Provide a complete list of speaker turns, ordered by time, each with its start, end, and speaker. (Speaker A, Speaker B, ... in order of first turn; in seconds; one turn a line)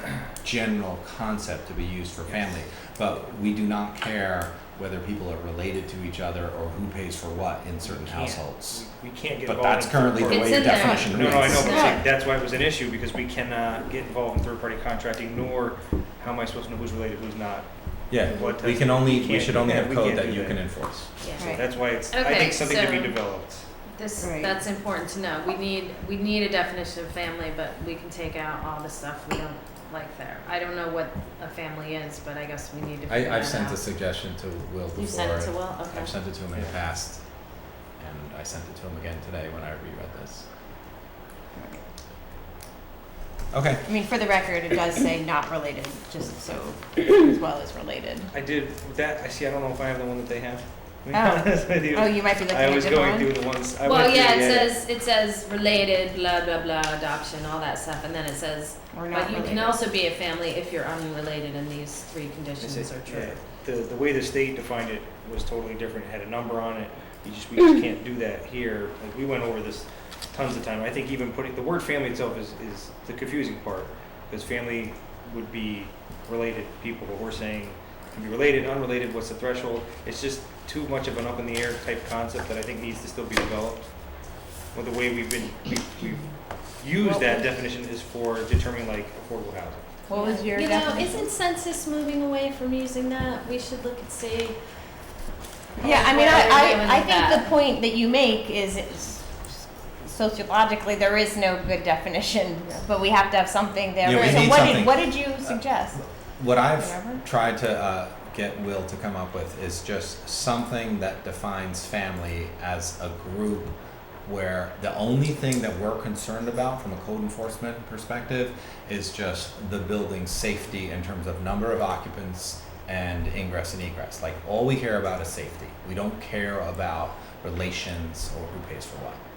Speaker A: 0.4-8.8
Speaker B: 2.3-2.6
Speaker B: 7.8-23.7
Speaker A: 9.4-11.7
Speaker C: 10.2-12.0
Speaker D: 11.7-12.0
Speaker A: 18.1-21.2
Speaker C: 21.2-23.3
Speaker C: 23.9-33.8
Speaker D: 24.2-24.5
Speaker A: 33.1-40.5
Speaker C: 34.9-36.1
Speaker A: 43.5-43.9
Speaker D: 43.9-48.3
Speaker B: 48.3-54.7
Speaker D: 51.1-53.3
Speaker C: 53.8-63.4
Speaker D: 58.9-59.8
Speaker B: 62.6-89.9
Speaker D: 87.0-87.4
Speaker D: 90.1-91.2
Speaker C: 90.1-94.6
Speaker C: 95.8-97.5
Speaker D: 95.8-99.5
Speaker D: 100.1-106.0
Speaker A: 104.0-129.2
Speaker D: 106.8-107.2